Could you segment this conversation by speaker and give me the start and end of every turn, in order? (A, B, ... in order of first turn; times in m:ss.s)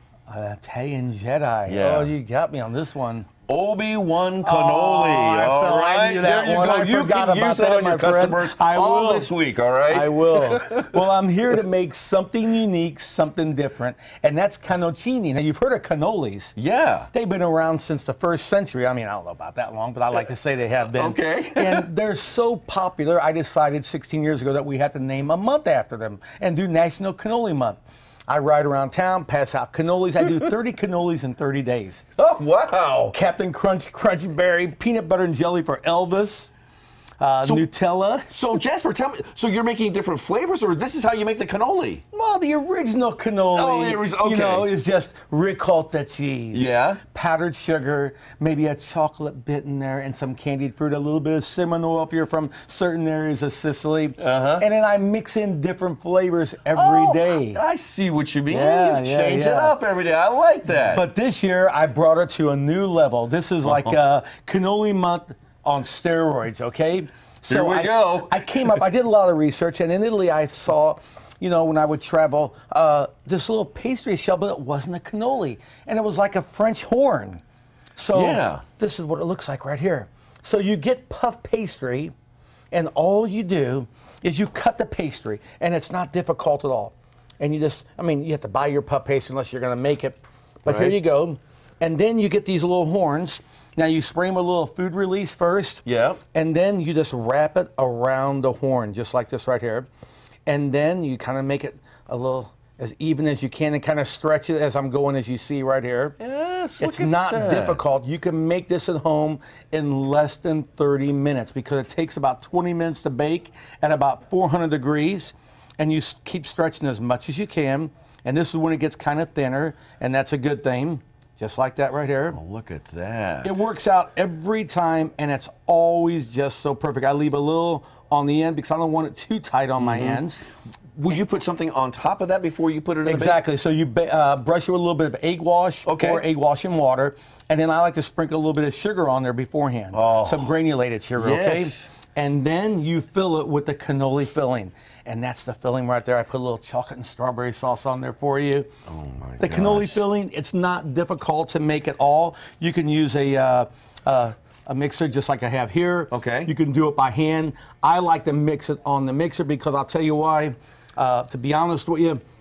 0:00.3-0:03.3 A
0:01.7-0:02.1 B
0:03.5-0:11.0 B
0:04.4-0:09.3 A
0:09.9-0:16.5 A
0:16.6-0:17.1 B
0:17.1-0:32.0 A
0:20.9-0:21.9 B
0:32.2-0:33.2 B
0:33.1-0:36.5 A
0:37.2-0:38.3 A
0:38.3-0:42.0 B
0:42.1-0:57.6 A
0:43.6-0:44.7 B
0:46.5-0:47.0 B
0:54.2-0:54.6 B
0:56.7-1:01.0 B
0:58.5-0:59.8 A
1:00.9-1:17.4 A
1:03.6-1:04.0 B
1:07.5-1:08.8 B
1:18.0-1:22.1 A
1:18.1-1:18.6 B
1:22.7-1:39.9 A
1:30.7-1:31.0 B
1:35.8-1:36.2 B
1:40.5-1:46.2 A
1:46.2-1:47.8 B
1:46.8-2:02.4 A
2:02.3-2:03.7 B
2:03.4-2:10.4 A
2:09.8-2:10.2 B
2:11.0-2:13.4 B
2:13.0-2:28.7 A
2:15.8-2:16.2 B
2:19.9-2:20.5 B
2:21.2-2:21.9 B
2:28.9-2:30.0 B
2:29.4-2:42.2 A
2:36.1-2:36.5 B